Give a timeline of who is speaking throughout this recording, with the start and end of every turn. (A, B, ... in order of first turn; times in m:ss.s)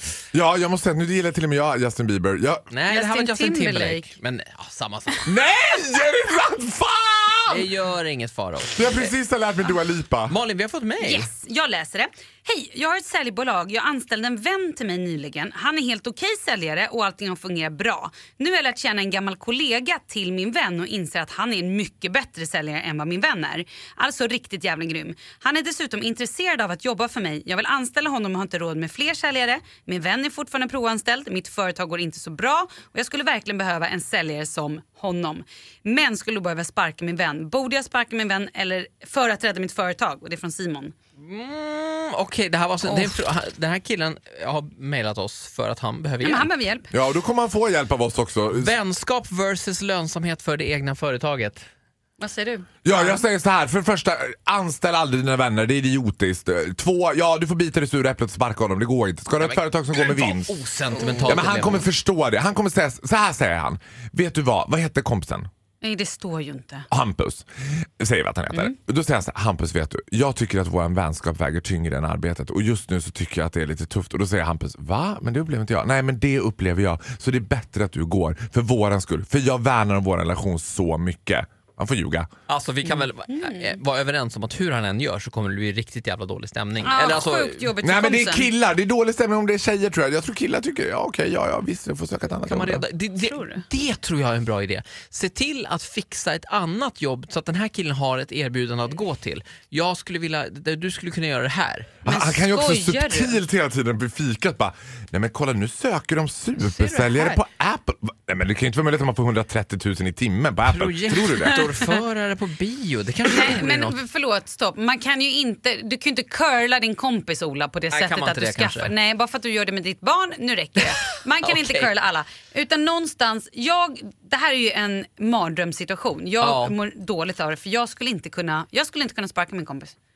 0:00.3-0:02.7 A
0:02.7-0:05.3 B
0:02.9-0:04.1 C
0:05.3-0:07.7 A
0:07.5-0:09.1 B
0:08.7-0:10.3 A
0:10.3-0:11.3 B
0:11.0-0:40.9 C
0:41.2-0:46.5 B
0:42.8-0:43.1 C
0:46.2-0:46.9 C
0:46.9-0:48.7 A
0:48.5-0:51.6 B
0:52.2-0:53.2 C
0:52.8-1:00.5 A
0:59.4-1:01.9 B
1:01.2-1:05.5 A
1:05.8-1:06.9 C
1:06.9-1:07.4 A
1:08.0-1:22.3 A
1:22.5-1:27.7 B
1:23.3-1:23.8 C
1:26.8-1:28.5 C
1:27.8-1:32.8 A
1:32.5-1:42.0 B
1:33.2-1:33.6 C
1:42.0-1:43.4 C
1:42.0-1:51.7 A
1:46.6-1:47.4 B
1:50.7-1:54.0 B
1:53.3-2:09.9 C
1:57.9-1:58.9 B
2:01.4-2:01.9 B
2:06.4-2:06.7 B